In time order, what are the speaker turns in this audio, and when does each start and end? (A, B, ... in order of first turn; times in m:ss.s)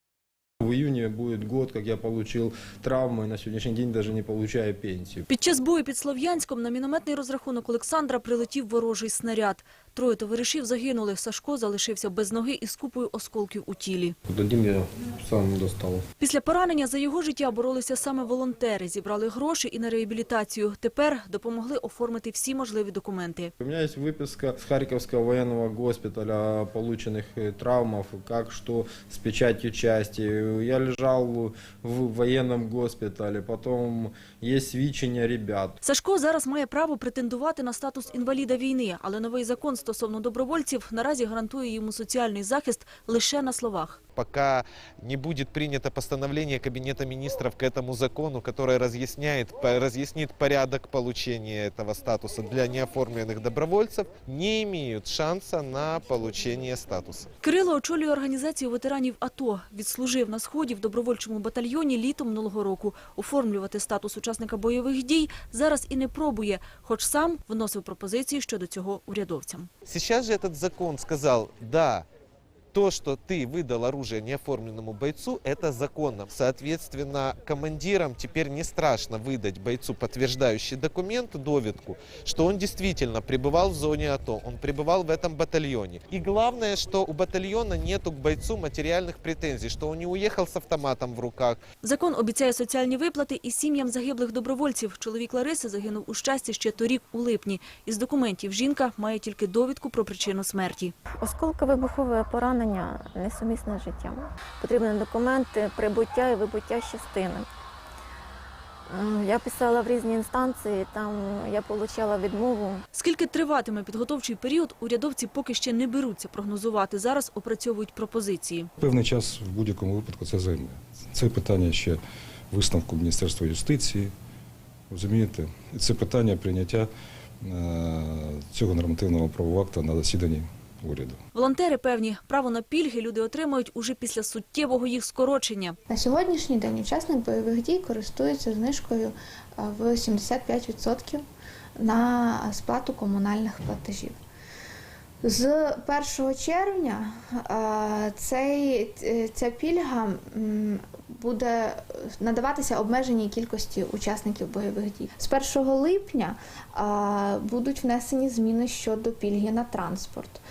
0:00.6-0:05.2 A
0:05.3-0:14.2 B
0:14.3-0:16.0 A
0:16.2-0:23.5 B
0:23.6-0:35.8 A
0:35.8-0:44.0 B
0:44.2-0:57.3 C
0:57.4-1:09.7 B
1:09.9-1:12.1 C
1:12.7-1:31.6 C
1:31.8-1:40.9 B
1:41.2-1:47.5 D
1:48.9-1:52.8 D
1:52.9-1:58.7 B
1:58.8-2:02.0 E
2:02.5-2:04.1 E
2:04.9-2:06.9 E
2:07.4-2:11.2 E
2:11.3-2:15.8 B
2:15.9-2:21.2 F
2:21.8-2:24.2 F
2:25.2-2:40.4 F